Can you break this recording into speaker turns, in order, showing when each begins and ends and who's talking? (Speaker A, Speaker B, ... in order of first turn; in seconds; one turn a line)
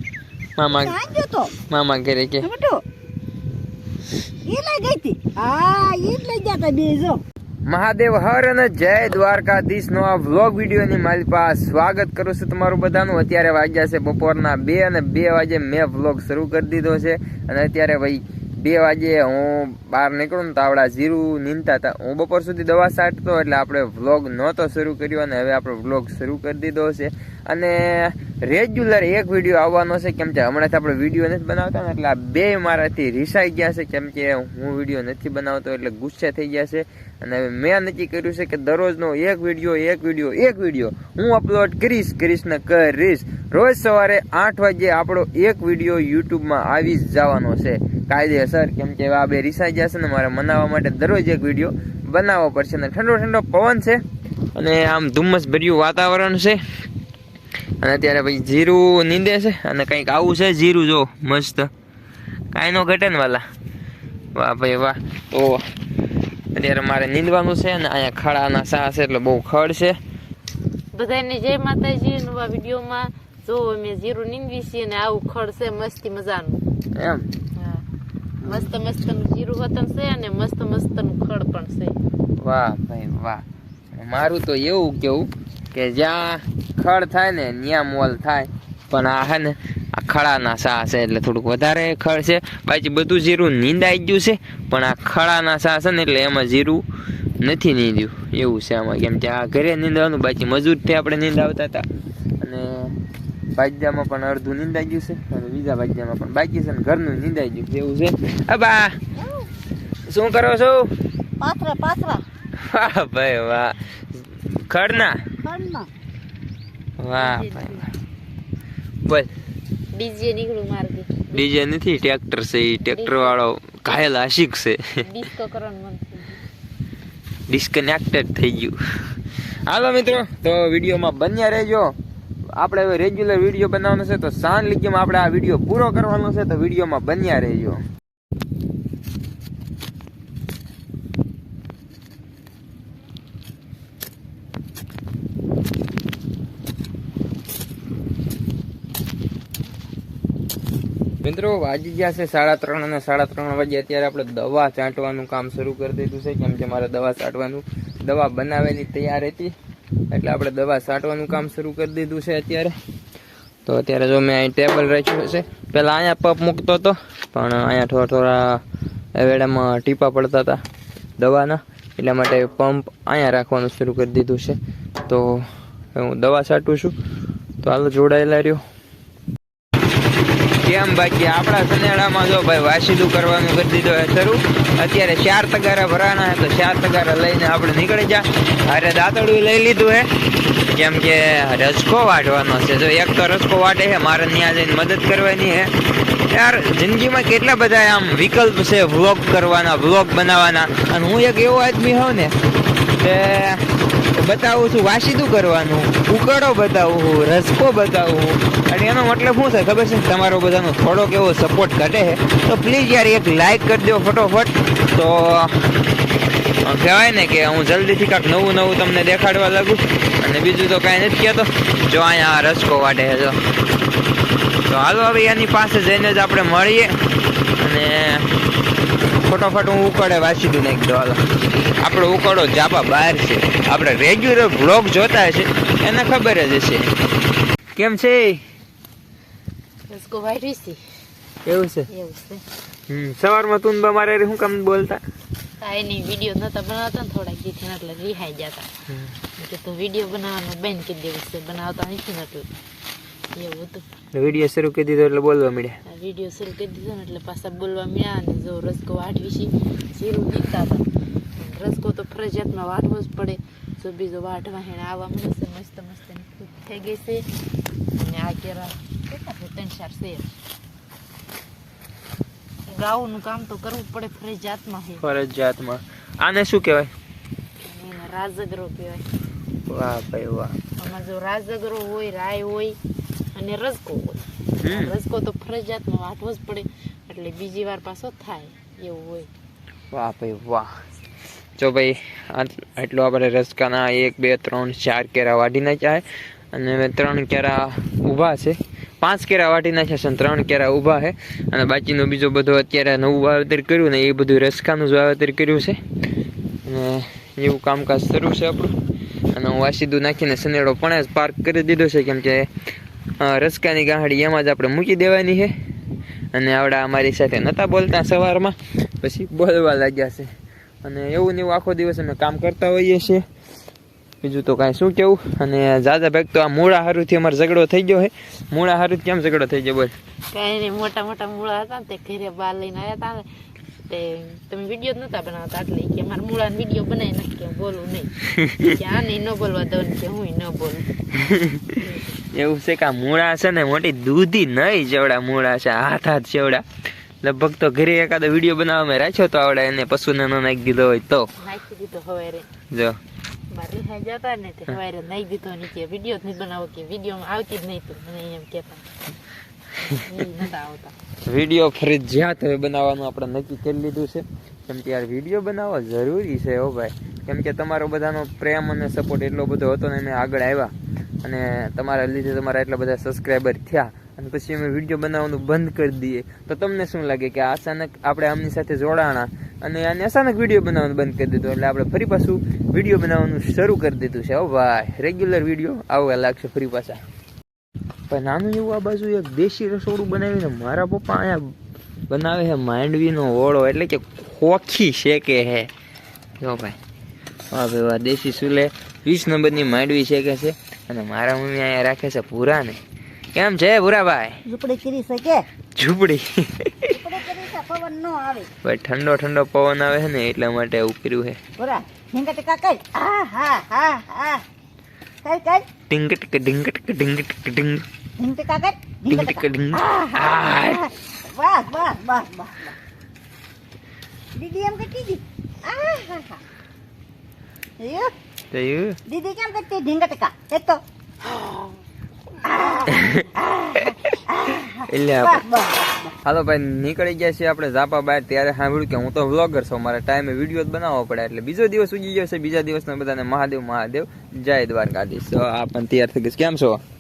Speaker A: 0.6-1.0
Speaker B: 0.7-1.5
Speaker A: 1.7-2.5
Speaker B: 2.4-2.8
Speaker B: 4.5-7.2
Speaker A: 7.7-54.0
Speaker A: 54.5-56.6
Speaker A: 57.8-61.7
Speaker A: 62.5-63.4
Speaker A: 64.3-65.6
Speaker A: 66.5-70.0
Speaker C: 70.9-76.6
Speaker A: 77.0-77.3
Speaker C: 77.6-77.9
Speaker A: 78.4-78.7
Speaker C: 78.5-82.0
Speaker A: 82.4-96.8
Speaker A: 97.4-101.8
Speaker A: 102.4-103.0
Speaker A: 103.6-109.0
Speaker A: 110.1-110.9
Speaker B: 111.4-112.2
Speaker A: 112.5-115.2
Speaker B: 115.4-115.9
Speaker A: 117.0-117.8
Speaker C: 117.2-117.9
Speaker A: 119.0-119.3
Speaker C: 119.9-121.5
Speaker A: 121.3-125.0
Speaker C: 122.8-123.4
Speaker C: 125.0-126.4
Speaker A: 127.5-128.8
Speaker A: 129.6-131.9
Speaker A: 132.6-137.8
Speaker A: 151.2-159.5
Speaker A: 160.1-162.8
Speaker A: 163.7-168.6
Speaker A: 169.2-170.6
Speaker A: 171.2-176.9
Speaker A: 177.6-178.6
Speaker A: 180.6-190.1
Speaker A: 190.7-195.7
Speaker A: 196.3-202.3
Speaker A: 203.0-203.6
Speaker A: 204.2-215.7
Speaker A: 216.6-223.4
Speaker A: 224.7-226.9
Speaker A: 227.6-228.3
Speaker A: 229.2-231.2
Speaker A: 231.8-236.9
Speaker A: 237.8-238.4
Speaker C: 239.9-240.8
Speaker A: 241.5-241.9
Speaker C: 241.9-242.4
Speaker A: 242.9-245.0
Speaker C: 245.6-248.7
Speaker C: 249.4-252.5
Speaker C: 253.3-253.8
Speaker A: 254.1-255.8
Speaker C: 255.8-260.9
Speaker C: 261.4-267.3
Speaker C: 267.9-270.3
Speaker C: 272.7-275.0
Speaker A: 275.0-276.9
Speaker C: 277.6-279.1
Speaker A: 279.7-280.6
Speaker C: 280.8-282.8
Speaker C: 283.4-289.3
Speaker A: 284.6-284.9
Speaker A: 289.9-290.7
Speaker A: 291.6-305.8
Speaker A: 306.6-308.7
Speaker A: 309.3-312.5
Speaker A: 313.2-315.5
Speaker A: 316.3-320.3
Speaker A: 320.8-323.2
Speaker A: 324.2-329.9
Speaker C: 330.3-333.3
Speaker C: 333.9-340.9
Speaker A: 338.4-338.7
Speaker A: 341.1-341.8
Speaker C: 341.8-342.2
Speaker A: 342.3-346.6
Speaker A: 347.2-351.3
Speaker C: 351.4-352.5
Speaker A: 352.7-353.0
Speaker C: 353.5-358.9
Speaker C: 359.8-360.9
Speaker A: 361.2-370.7
Speaker A: 371.2-387.0
Speaker A: 388.1-391.5
Speaker A: 392.1-395.7
Speaker A: 396.4-396.8
Speaker A: 397.5-402.8
Speaker A: 403.4-404.4
Speaker B: 404.4-405.4
Speaker A: 405.8-407.0
Speaker B: 406.9-408.5
Speaker A: 408.6-411.4
Speaker B: 411.6-414.4
Speaker B: 415.2-415.6
Speaker A: 415.9-417.8
Speaker B: 418.2-422.8
Speaker A: 419.1-420.8
Speaker B: 424.4-426.4
Speaker B: 427.8-428.1
Speaker A: 428.5-429.0
Speaker B: 429.1-430.8
Speaker B: 432.4-436.1
Speaker A: 432.9-433.3
Speaker A: 434.9-435.4
Speaker A: 436.2-446.8